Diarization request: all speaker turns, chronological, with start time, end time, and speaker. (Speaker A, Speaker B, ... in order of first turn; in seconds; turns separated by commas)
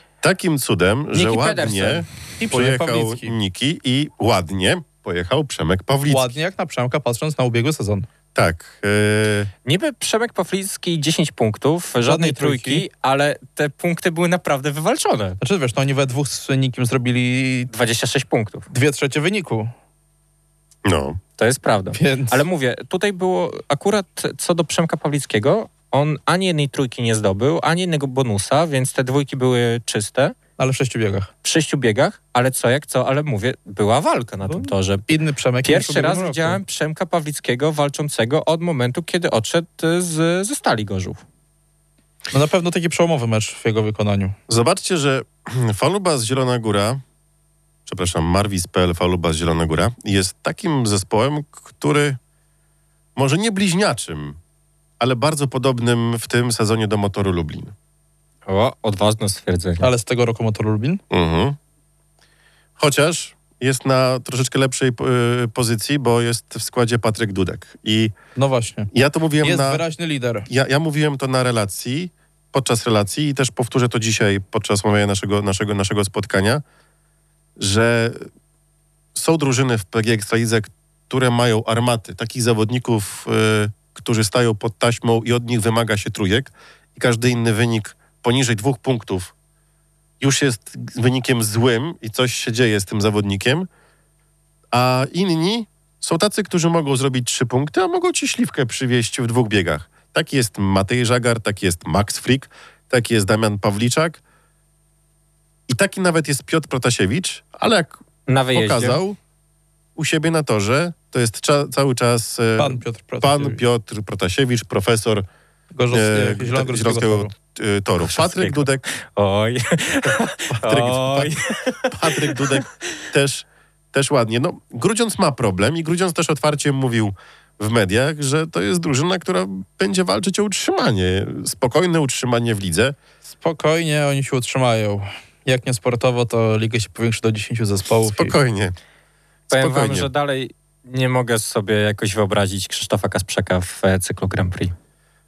Speaker A: 0.2-6.3, Speaker B: 1.1-2.1, Speaker C: 2.4-3.4, Speaker C: 6.1-8.1, Speaker A: 8.3-9.5, Speaker B: 9.7-15.4, Speaker C: 12.0-12.8, Speaker C: 15.4-17.7, Speaker B: 17.7-18.7, Speaker C: 18.7-19.7, Speaker A: 20.9-21.2, Speaker B: 21.4-30.4, Speaker C: 21.9-22.5, Speaker C: 30.6-31.3, Speaker B: 31.4-35.1, Speaker C: 34.5-36.6, Speaker B: 35.6-41.2, Speaker C: 42.3-44.4, Speaker A: 44.5-47.0, Speaker A: 47.9-52.2, Speaker A: 53.2-54.4, Speaker A: 55.0-57.7, Speaker B: 58.5-59.9, Speaker C: 59.8-61.0, Speaker A: 61.1-61.6, Speaker A: 62.8-68.2, Speaker C: 68.3-70.5, Speaker A: 68.9-69.8, Speaker A: 70.5-76.6, Speaker A: 77.6-78.3, Speaker A: 79.2-89.3, Speaker A: 90.2-93.7, Speaker A: 94.7-104.2, Speaker A: 105.7-108.0, Speaker B: 108.3-109.0, Speaker A: 108.5-109.2, Speaker A: 110.0-115.3, Speaker C: 112.6-113.6, Speaker C: 115.8-117.3, Speaker A: 115.9-118.8, Speaker B: 118.0-122.7, Speaker A: 120.5-121.3, Speaker A: 121.9-133.0, Speaker C: 133.2-138.4, Speaker A: 138.1-138.8, Speaker B: 139.5-144.7, Speaker A: 139.5-140.1